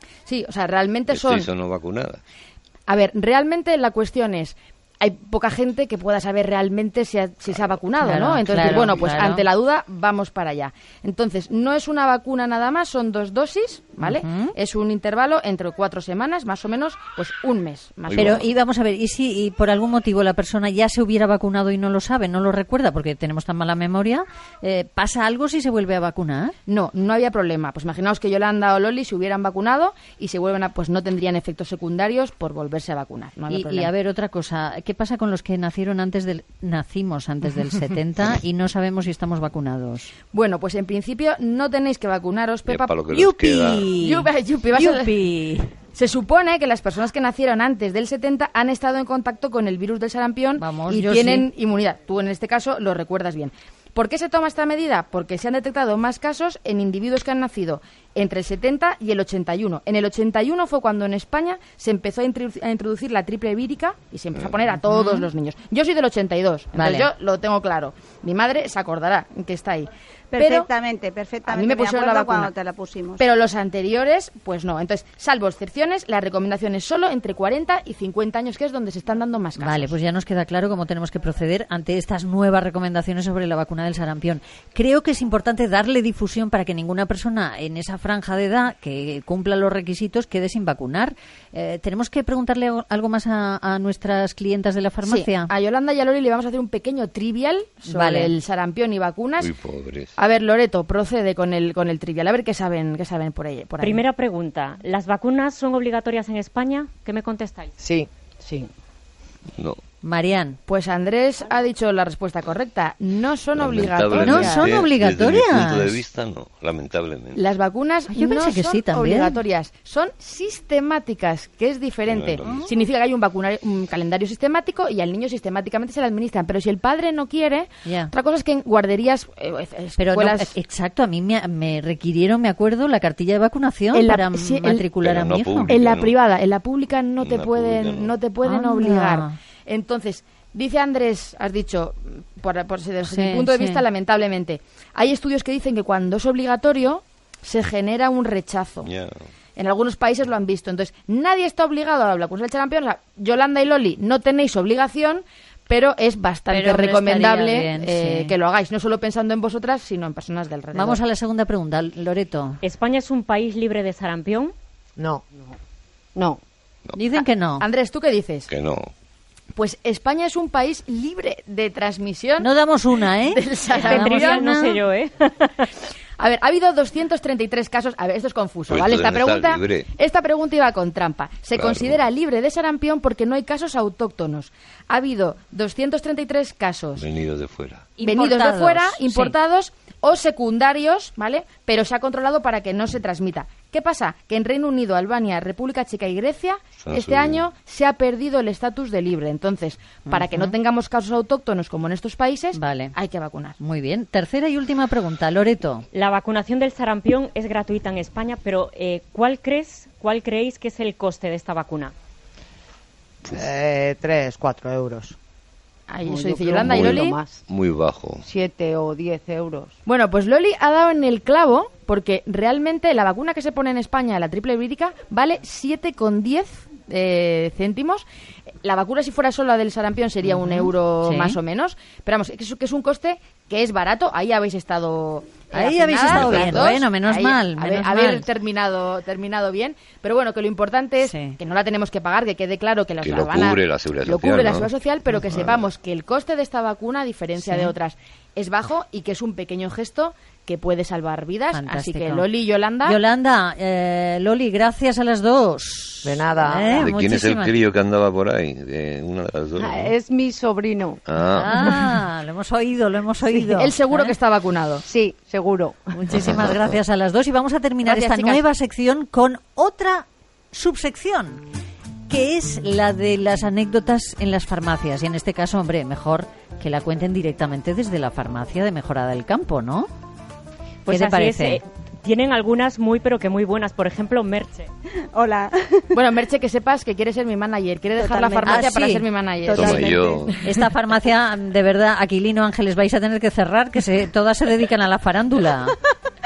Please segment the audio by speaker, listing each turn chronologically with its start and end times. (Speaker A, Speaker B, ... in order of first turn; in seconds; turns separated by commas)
Speaker A: 0.2-1.5, Speaker B: 1.1-2.2, Speaker A: 2.9-18.4, Speaker C: 8.1-9.5, Speaker B: 8.8-9.1, Speaker C: 14.0-14.5, Speaker B: 18.1-18.5, Speaker C: 18.1-26.5, Speaker A: 26.7-33.9, Speaker C: 33.5-40.1, Speaker A: 40.3-45.2, Speaker B: 42.7-43.7, Speaker C: 43.1-45.7, Speaker A: 45.9-70.7, Speaker C: 50.5-51.5, Speaker C: 64.8-65.3, Speaker C: 66.8-67.1, Speaker D: 70.3-73.2, Speaker A: 71.5-72.5, Speaker A: 73.2-79.9, Speaker C: 79.6-95.5, Speaker A: 95.0-99.5, Speaker C: 97.8-98.3, Speaker B: 99.4-100.1, Speaker A: 100.2-104.0, Speaker E: 103.8-107.7, Speaker F: 107.8-108.7, Speaker C: 110.0-110.6, Speaker A: 110.7-114.9, Speaker B: 113.5-117.4, Speaker C: 114.2-116.0, Speaker A: 117.3-130.5, Speaker C: 118.1-119.4, Speaker B: 122.1-122.4, Speaker C: 122.4-122.7, Speaker C: 127.8-128.1, Speaker C: 129.9-135.8, Speaker A: 133.9-134.9, Speaker B: 135.0-136.2, Speaker A: 135.5-148.9, Speaker B: 137.2-138.2, Speaker C: 138.4-139.3, Speaker C: 143.0-143.8, Speaker B: 148.8-149.3, Speaker A: 149.6-161.0, Speaker C: 156.5-158.4, Speaker C: 160.7-162.6, Speaker E: 162.6-164.5, Speaker G: 165.0-165.6, Speaker G: 166.1-166.4, Speaker C: 166.9-167.7, Speaker A: 167.1-168.5, Speaker B: 168.5-168.9, Speaker A: 169.5-174.4, Speaker C: 172.4-174.8, Speaker E: 173.7-175.7, Speaker A: 176.2-187.1, Speaker B: 178.7-179.9, Speaker B: 181.5-182.0, Speaker B: 186.9-187.9, Speaker C: 187.9-189.3, Speaker A: 188.0-203.6, Speaker B: 196.8-197.5, Speaker C: 200.0-200.6, Speaker C: 202.5-202.9, Speaker C: 203.6-205.8, Speaker E: 205.9-211.9, Speaker F: 213.3-215.2, Speaker A: 215.9-217.2, Speaker G: 216.1-217.4, Speaker B: 216.6-218.3, Speaker G: 218.3-219.7, Speaker A: 219.8-228.0, Speaker A: 228.6-253.0, Speaker C: 230.2-231.3, Speaker C: 235.5-238.3, Speaker B: 236.1-236.7, Speaker C: 241.0-241.4, Speaker B: 243.0-244.7, Speaker B: 245.2-245.6, Speaker C: 247.4-247.7, Speaker C: 251.5-252.3, Speaker C: 252.8-257.5, Speaker F: 256.1-256.8, Speaker G: 256.4-256.9, Speaker B: 256.8-260.0, Speaker G: 259.6-261.0, Speaker B: 261.1-261.7, Speaker C: 261.3-264.2, Speaker G: 263.2-263.6, Speaker A: 263.6-264.8, Speaker G: 264.9-265.9, Speaker C: 265.9-271.4, Speaker A: 267.8-268.4, Speaker C: 272.1-279.9, Speaker E: 280.9-284.7, Speaker C: 280.9-281.6, Speaker D: 285.1-285.8, Speaker A: 285.9-289.7, Speaker D: 287.9-288.7, Speaker C: 288.4-289.2, Speaker D: 289.4-290.3, Speaker B: 289.4-290.3, Speaker C: 290.4-295.8